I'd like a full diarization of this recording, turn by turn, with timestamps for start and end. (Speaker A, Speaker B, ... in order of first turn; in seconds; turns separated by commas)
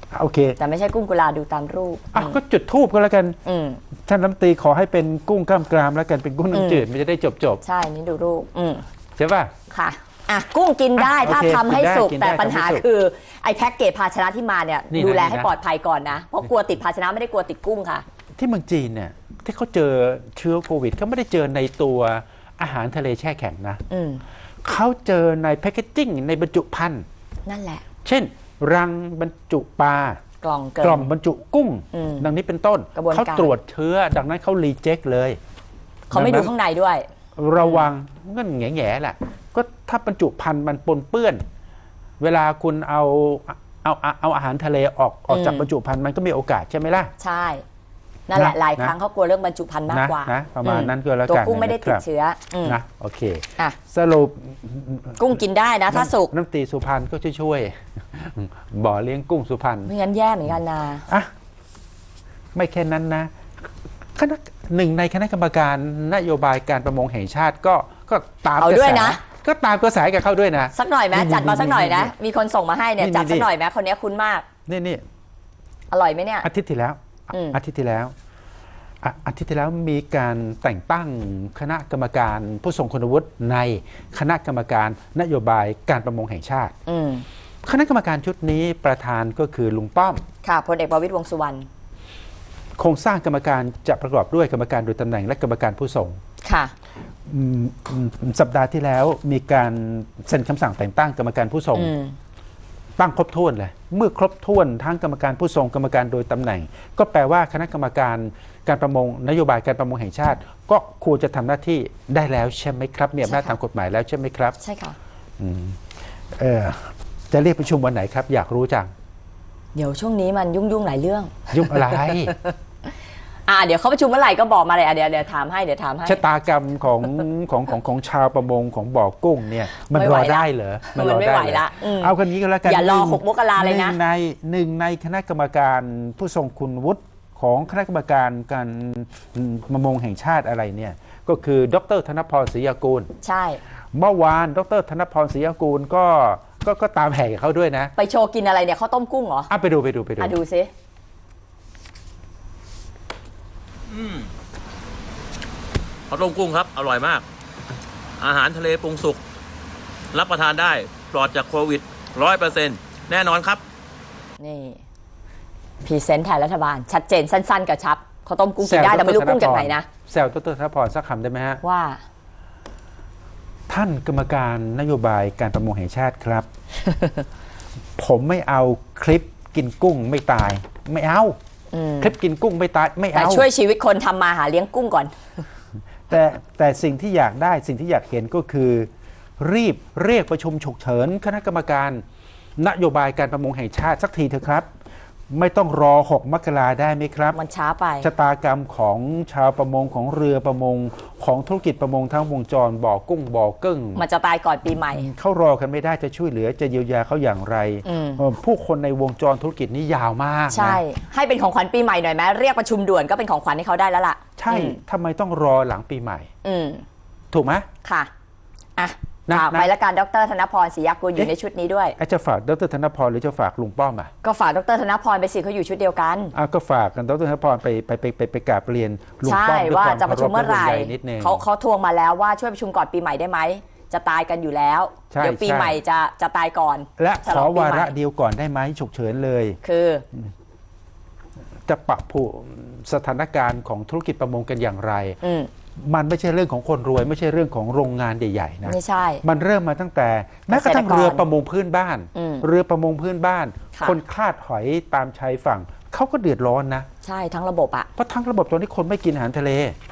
Speaker A: 0.1-0.6, Speaker B: 0.6-2.4, Speaker A: 2.1-3.4, Speaker B: 3.5-3.8, Speaker A: 4.0-7.6, Speaker B: 6.5-6.8, Speaker B: 7.6-8.8, Speaker A: 9.2-9.5, Speaker B: 9.7-18.0, Speaker A: 11.0-12.8, Speaker A: 14.9-15.5, Speaker A: 18.4-23.8, Speaker B: 23.9-24.2, Speaker A: 24.6-27.1, Speaker B: 27.5-27.9, Speaker A: 28.1-30.2, Speaker B: 30.4-31.1, Speaker A: 30.8-35.4, Speaker B: 31.9-32.3, Speaker B: 33.0-33.5, Speaker B: 36.1-37.1, Speaker A: 36.1-36.5, Speaker A: 37.4-41.4, Speaker B: 37.6-37.9, Speaker A: 42.2-47.1, Speaker B: 45.3-45.7, Speaker B: 47.2-47.6, Speaker B: 48.3-52.8, Speaker A: 48.3-48.9, Speaker A: 49.9-52.0, Speaker A: 52.6-55.4, Speaker B: 55.2-56.3, Speaker A: 55.9-59.9, Speaker B: 59.9-61.1, Speaker A: 62.5-63.3, Speaker A: 64.2-72.1, Speaker B: 68.6-69.2, Speaker B: 70.7-74.5, Speaker A: 73.0-73.5, Speaker A: 74.7-75.0, Speaker B: 75.9-76.5, Speaker A: 76.4-78.1, Speaker B: 77.3-77.6, Speaker A: 79.0-86.8, Speaker B: 86.9-87.3, Speaker A: 87.7-90.2, Speaker B: 90.4-91.7, Speaker A: 92.8-96.2, Speaker B: 96.4-96.7, Speaker A: 97.3-101.9, Speaker B: 101.7-102.2, Speaker A: 103.0-114.6, Speaker B: 113.2-113.6, Speaker B: 114.6-115.0, Speaker A: 115.4-115.8, Speaker A: 116.3-118.9, Speaker B: 119.8-122.5, Speaker A: 121.5-122.3, Speaker B: 123.5-126.2, Speaker A: 126.1-143.1, Speaker B: 129.9-134.0, Speaker B: 143.2-143.6, Speaker A: 143.9-147.9, Speaker B: 148.0-149.5, Speaker A: 149.5-150.4, Speaker B: 150.2-150.7, Speaker C: 153.9-154.3, Speaker C: 156.1-157.2, Speaker C: 158.2-159.2, Speaker C: 160.1-163.6, Speaker B: 164.4-164.8, Speaker B: 165.8-169.9, Speaker A: 168.6-171.6, Speaker B: 171.6-172.0, Speaker A: 173.7-176.5, Speaker B: 176.8-177.2, Speaker A: 178.0-181.4, Speaker B: 181.7-182.1, Speaker A: 182.0-183.5, Speaker B: 183.1-185.2, Speaker A: 186.1-192.0, Speaker A: 192.6-194.7, Speaker A: 195.3-197.4, Speaker B: 197.3-198.1, Speaker A: 198.0-204.0, Speaker B: 204.0-205.1, Speaker A: 204.9-210.8, Speaker B: 207.8-208.2, Speaker B: 210.5-214.8, Speaker A: 214.4-216.3, Speaker B: 216.4-216.8, Speaker A: 217.3-217.7, Speaker B: 217.8-218.1, Speaker B: 218.8-222.0, Speaker A: 219.3-219.7, Speaker A: 222.0-224.1, Speaker B: 224.2-226.3, Speaker A: 226.3-231.4, Speaker B: 229.2-237.9, Speaker A: 235.1-235.8, Speaker A: 237.0-239.6, Speaker B: 239.6-240.1, Speaker A: 241.7-245.2, Speaker B: 245.2-245.5, Speaker A: 245.8-256.9, Speaker B: 248.7-249.2, Speaker B: 250.5-251.2, Speaker B: 252.2-252.5, Speaker B: 257.0-257.9, Speaker A: 258.0-259.8